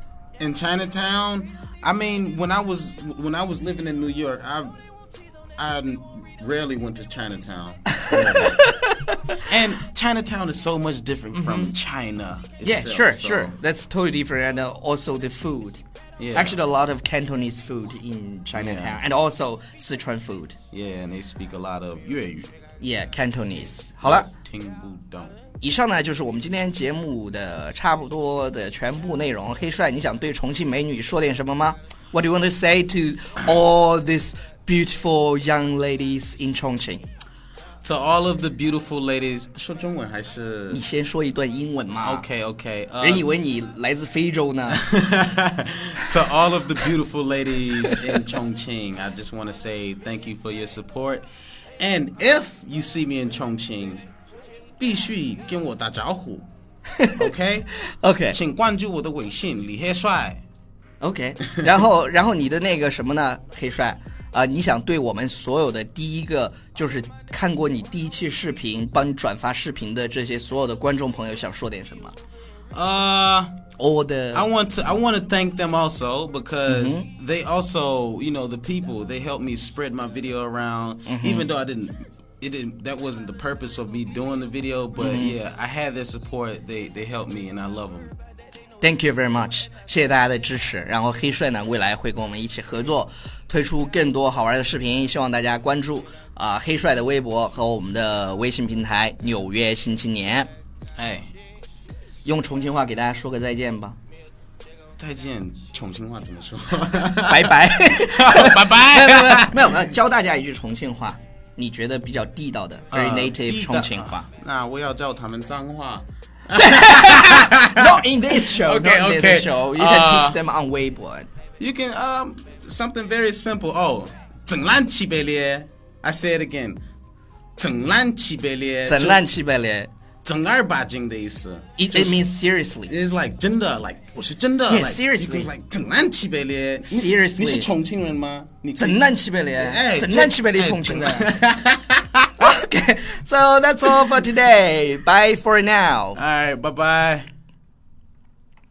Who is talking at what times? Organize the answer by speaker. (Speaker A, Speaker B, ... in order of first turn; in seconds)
Speaker A: 0.4-4.8, 5.6-8.6, 9.4-13.6, 16.2-16.6, 18.5-19.0, 20.7-22.5, 24.0-25.4, 37.8-40.8, 42.0-43.3, 44.7-51.3, 51.8-54.0, 54.8-56.5, 57.1-57.7, 58.3-60.4, 72.7-73.5, 74.3-88.2, 101.0-101.3, 105.0-109.8, 112.9-120.4, 121.6-126.8, 127.6-129.2, 130.2-132.2, 132.9-142.5, 146.2-147.3
Speaker B: 8.1-9.4, 11.3-11.7, 12.6-15.8, 16.3-20.6, 22.8-24.3, 25.6-37.0, 40.7-42.2, 43.0-44.9, 57.0-57.3, 57.9-58.4, 61.0-72.2, 73.8-74.5, 76.7-77.1, 81.1-81.5, 85.0-85.4, 88.8-100.5, 102.2-104.0, 107.2-114.3, 116.5-121.3, 128.9-129.9, 131.8-132.9, 134.7-135.5, 136.9-137.7, 138.8-141.3, 142.4-146.2